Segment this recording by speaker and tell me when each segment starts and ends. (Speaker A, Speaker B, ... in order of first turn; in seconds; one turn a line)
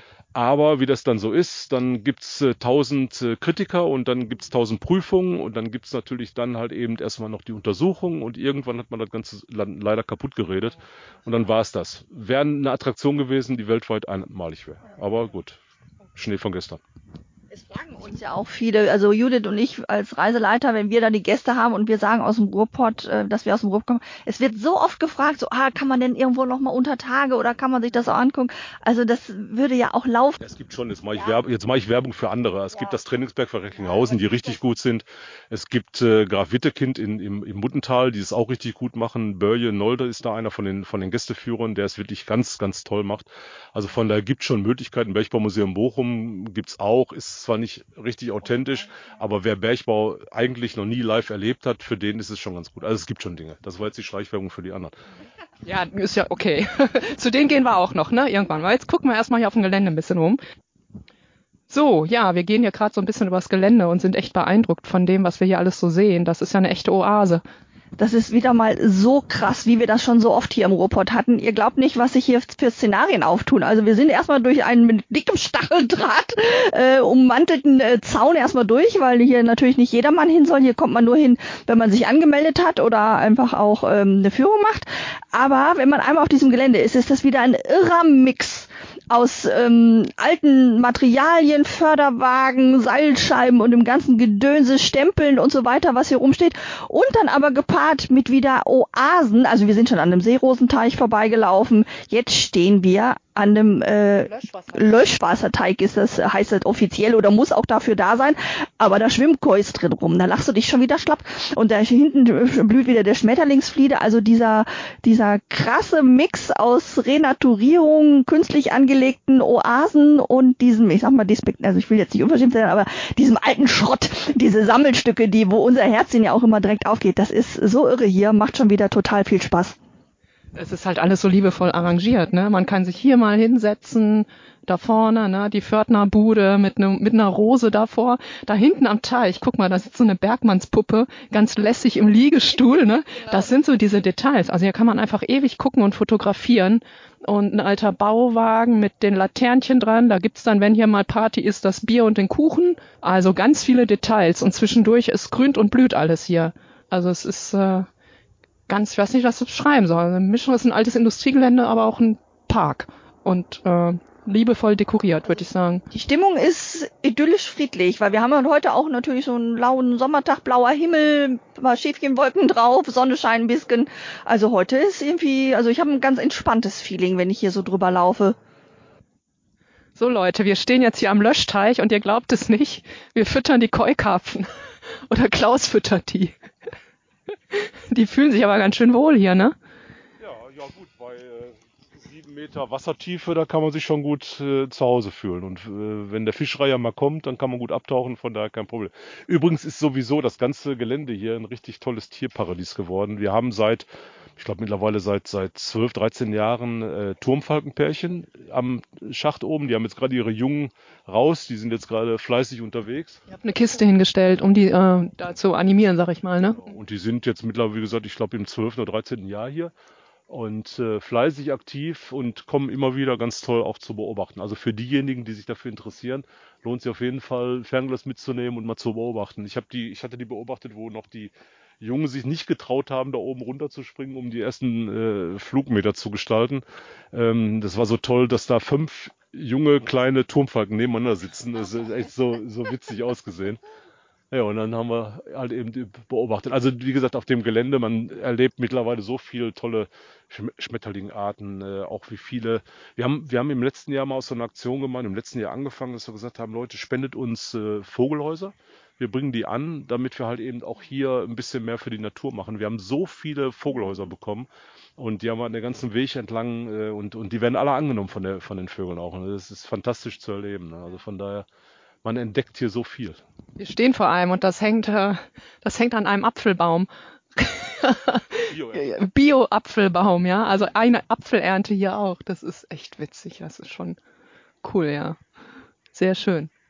Speaker A: 0.3-15.6
Speaker A: 16.1-16.8
Speaker B: 17.5-30.4
Speaker A: 30.4-55.0
Speaker C: 55.6-60.4
Speaker C: 61.7-67.4
Speaker B: 68.0-129.8
Speaker C: 104.2-105.0
Speaker C: 130.6-157.9
Speaker C: 158.7-165.8
Speaker B: 165.9-178.4
Speaker C: 180.0-184.5
Speaker C: 185.1-186.4
Speaker C: 187.5-189.6
Speaker A: 190.2-213.2
Speaker C: 213.3-216.6
Speaker A: 216.6-219.7
Speaker A: 220.3-243.6
Speaker A: 244.3-271.5
Speaker A: 272.0-273.2
Speaker C: 273.6-284.0
Speaker A: 278.5-279.0
Speaker C: 284.6-285.2
Speaker C: 285.9-286.5